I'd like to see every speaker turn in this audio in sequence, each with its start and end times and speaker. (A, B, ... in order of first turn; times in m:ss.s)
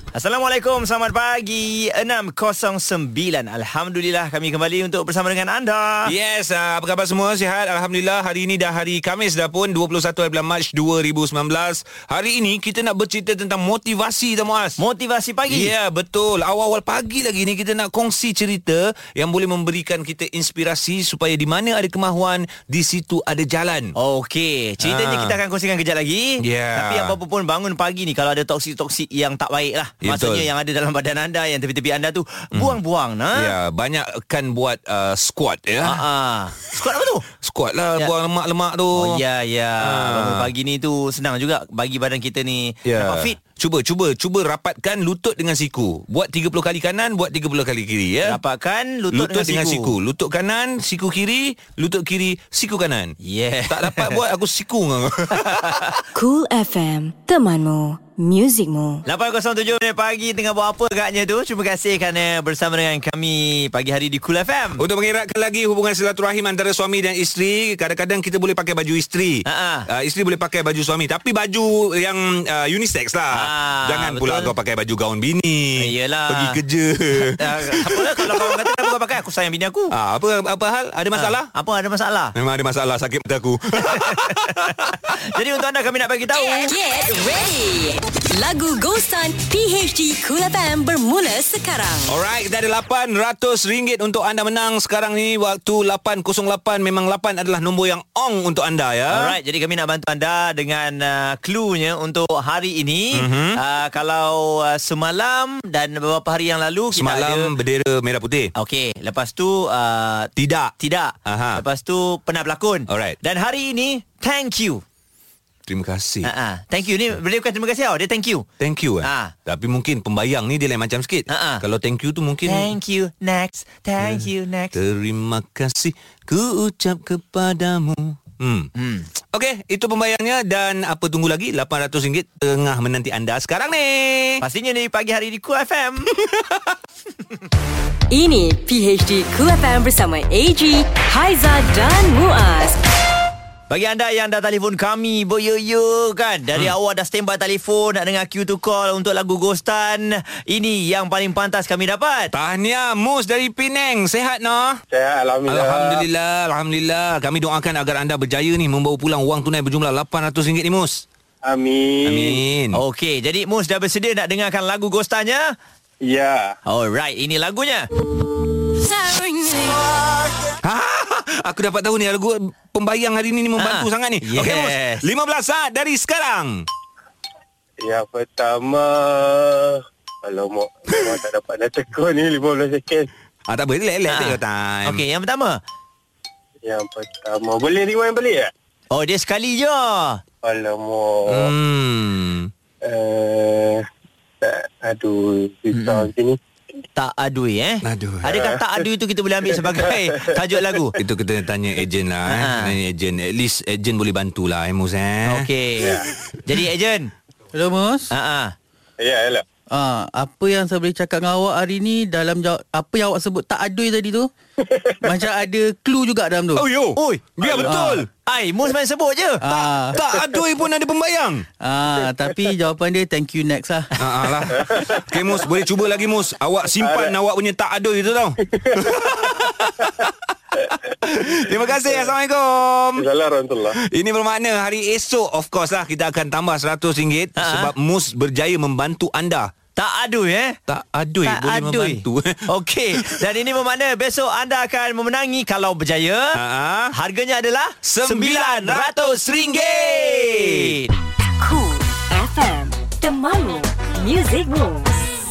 0:00.1-0:06.1 A
0:06.0-0:14.8 B
0:14.8-0:15.7 A
0:15.5-0:23.9 B
0:24.0-0:33.5 A
0:24.8-0:25.4 B
0:26.4-0:27.2 B
0:30.0-0:30.5 B
0:32.5-0:32.8 B
0:33.3-0:36.0 B
0:35.8-0:37.3 A
0:37.4-0:39.2 B
0:39.0-0:43.4 A
0:39.8-0:40.5 B
0:42.9-0:48.4 B
0:48.3-0:50.0 A
0:49.1-0:53.2 B
0:53.2-0:54.2 A
0:53.7-0:56.0 B
0:55.4-0:56.0 A
0:56.2-0:59.0 C
0:59.1-1:04.8 A
1:04.8-1:18.9 B
1:09.5-1:09.9 A
1:13.3-1:14.5 A
1:15.8-1:16.6 A
1:17.2-1:19.9 A
1:19.9-1:21.5 B
1:21.2-1:22.3 A
1:22.3-1:25.2 B
1:23.8-1:26.8 A
1:26.4-1:32.1 C
1:32.1-1:39.4 B
1:39.1-1:47.5 A
1:43.1-1:43.6 B
1:46.9-1:48.5 B
1:48.6-1:54.8 A
1:50.4-1:50.7 B
1:51.3-1:51.6 B
1:52.9-1:53.2 B
1:55.7-1:56.3 B
1:56.2-1:58.5 A
1:58.6-2:02.7 B
1:59.0-1:59.3 A
2:01.3-2:01.6 A
2:02.5-2:04.8 A
2:04.0-2:08.7 B
2:08.8-2:09.1 A
2:09.3-2:14.4 B
2:14.4-2:16.1 A
2:18.1-2:22.8 C
2:23.7-2:32.3 A
2:32.3-2:34.8 B
2:34.9-2:36.0 D
2:35.5-2:41.0 B
2:41.4-2:42.4 D
2:42.0-2:42.8 B
2:42.7-2:45.4 A
2:46.0-2:46.5 D
2:46.7-2:47.9 A
2:49.2-2:49.5 C
2:50.6-2:56.7 B
2:53.6-2:55.1 A
2:57.8-3:03.1 D
3:03.5-3:05.0 B
3:04.1-3:05.6 A
3:06.6-3:08.5 D
3:08.9-3:10.2 A
3:10.4-3:11.5 D
3:11.3-3:12.5 B
3:12.8-3:13.8 D
3:14.4-3:16.4 D
3:15.7-3:16.1 A
3:17.0-3:21.0 A
3:17.8-3:18.4 B
3:21.0-3:25.5 B
3:22.3-3:22.8 A
3:25.3-3:27.1 A
3:25.8-3:26.1 D
3:27.5-3:28.1 E
3:28.1-3:28.6 A
3:29.0-3:29.4 D
3:29.7-3:34.3 E
3:34.7-3:35.0 D
3:35.0-3:36.7 E
3:36.6-3:38.1 B
3:37.0-3:37.4 A
3:37.4-3:37.8 D
3:37.7-3:38.1 E
3:38.2-3:39.4 A
3:39.4-3:40.0 E
3:39.9-3:41.4 B
3:41.6-3:44.0 E
3:44.0-3:50.3 B
3:44.5-3:45.4 D
3:46.8-3:47.1 D
3:48.5-3:48.8 D
3:51.0-3:53.1 B
3:53.0-3:53.8 D
3:53.8-3:59.5 B
3:57.4-3:57.7 A
3:59.8-4:00.6 A
4:00.7-4:03.3 B
4:01.2-4:06.4 A
4:06.3-4:07.0 B
4:06.9-4:10.9 A
4:07.8-4:10.8 B
4:11.4-4:15.1 C